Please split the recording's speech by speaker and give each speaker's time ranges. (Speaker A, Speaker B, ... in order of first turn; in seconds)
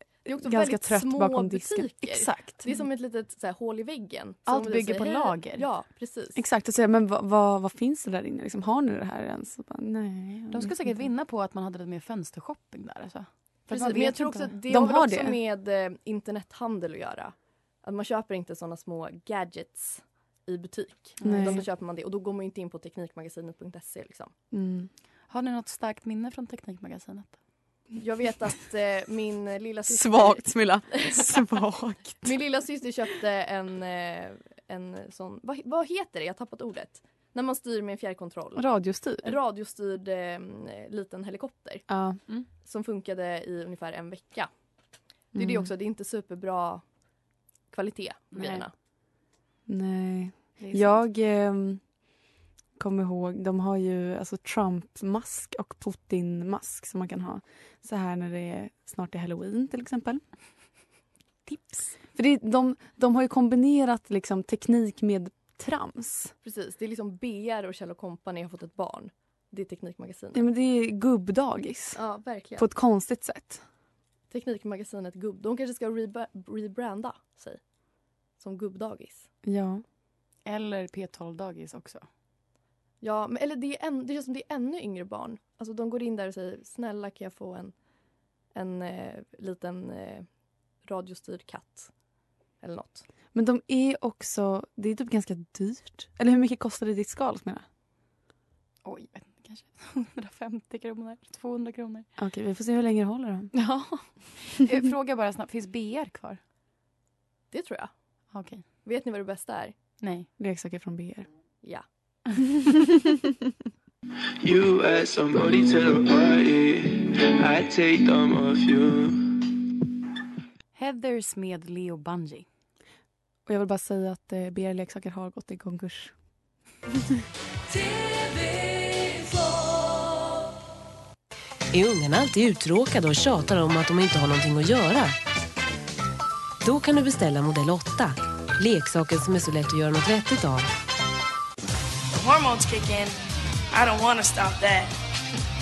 Speaker A: 0.3-6.4, 13.7-24.3, 28.0-31.3, 32.2-38.6, 39.2-41.9, 42.6-44.5, 45.4-46.9, 47.7-48.7, 66.4-70.4, 72.0-72.7, 74.3-77.6, 78.4-79.3, 83.0-87.8, 88.5-90.3, 90.8-91.9, 92.6-93.0, 107.5-107.9, 108.8-109.7
Speaker B: 0.3-2.6, 6.4-11.1, 14.7-15.4, 21.2-21.6, 24.5-24.9, 29.9-32.4, 38.6-39.4, 41.9-42.3, 45.3-45.7, 49.7-51.9, 52.8-60.2, 62.1-66.3, 70.3-72.0, 72.6-73.6, 79.4-79.8, 93.3-97.7, 102.2-103.5, 110.4-111.3, 123.5-126.2
Speaker C: 4.5-5.7, 10.5-14.5, 21.2-21.6, 25.3-27.4, 48.4-48.6, 50.6-51.0, 61.5-61.9, 80.5-82.0, 98.8-102.1, 103.5-106.4, 108.3-108.6, 110.0-110.3, 120.8-122.5
Speaker D: 114.4-119.4
Speaker E: 131.7-135.1, 136.6-140.7
Speaker F: 142.1-143.2, 143.7-144.9